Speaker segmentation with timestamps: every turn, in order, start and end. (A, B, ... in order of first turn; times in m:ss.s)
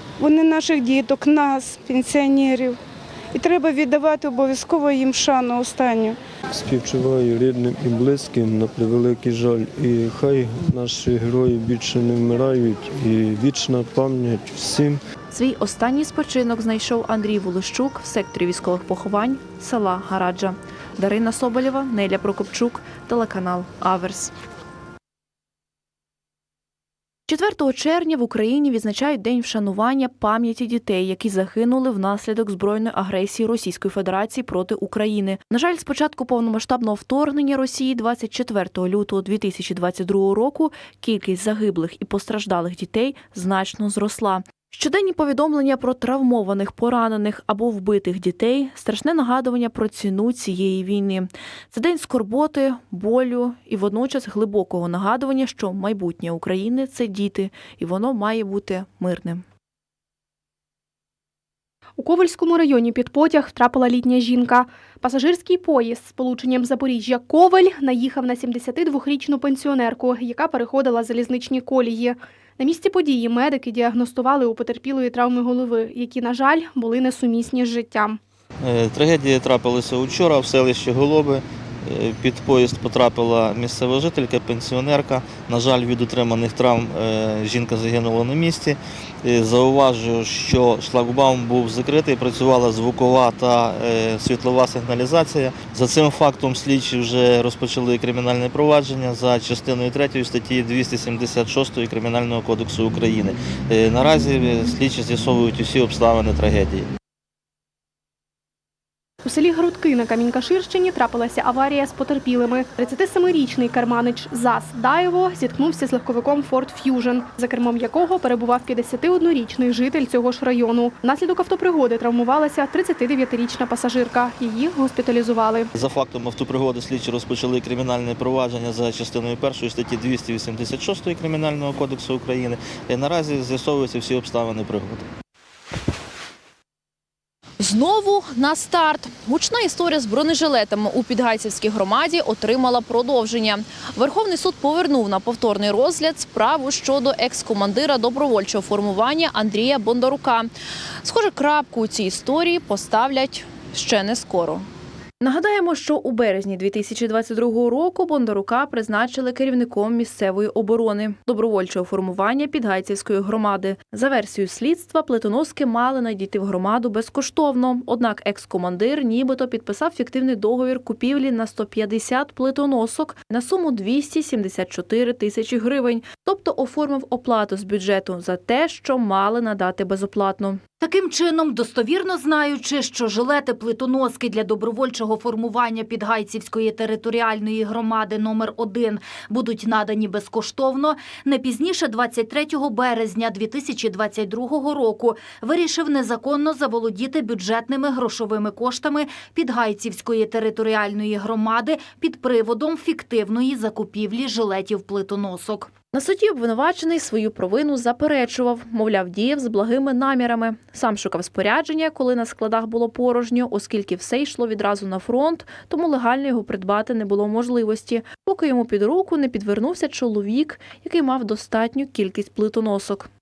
0:00.2-0:02.8 A
0:03.3-0:06.2 A
0:06.5-0:15.0 B
0:15.3-0:24.3 C
0:27.3-0:59.4 C
1:02.0-1:18.2 D
1:18.6-1:46.9 E
1:49.2-2:05.7 D
2:05.7-2:15.1 E
2:17.6-2:30.5 C
2:31.0-2:34.7 C
2:35.2-3:00.6 C
3:00.8-3:25.7 F
3:25.9-3:43.1 C